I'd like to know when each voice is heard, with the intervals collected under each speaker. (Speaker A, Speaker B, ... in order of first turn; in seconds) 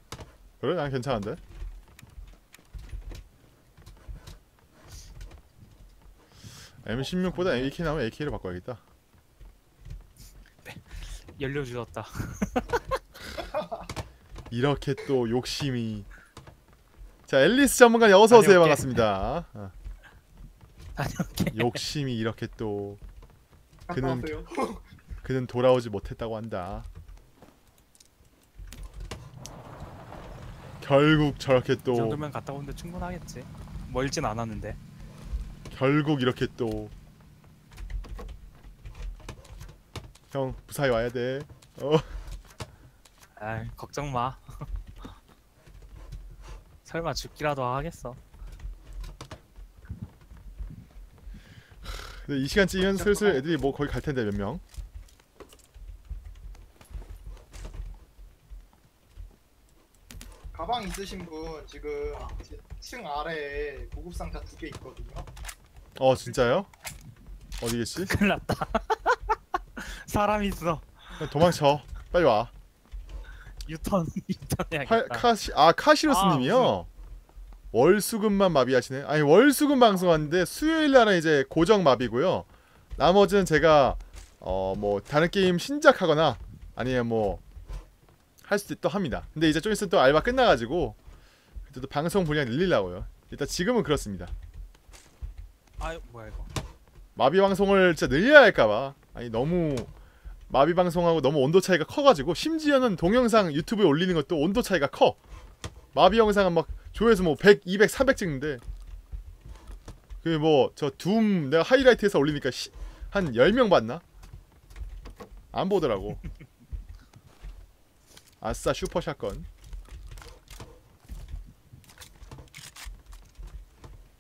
Speaker A: 0.6-1.4, 6.8-8.8, 14.5-16.1, 17.3-19.7, 21.5-23.0, 23.9-24.3, 25.2-26.9, 30.8-32.2, 35.7-36.9, 40.3-42.1, 51.9-54.6, 66.0-66.7, 67.6-68.1, 71.2-72.5, 74.9-76.9, 77.7-87.4, 88.5-91.0, 91.7-94.3, 97.2-99.9, 100.5-105.2, 105.9-108.6, 110.2-114.0, 115.5-116.2, 118.4-119.5
Speaker B: 7.0-7.8, 10.7-13.0, 18.3-19.0, 21.0-21.8, 31.9-34.8, 43.4-44.6, 46.9-48.2, 68.0-71.5, 73.7-75.3, 76.1-76.8, 95.8-96.5
Speaker C: 13.4-13.9, 23.9-24.9, 52.9-53.4, 60.5-65.3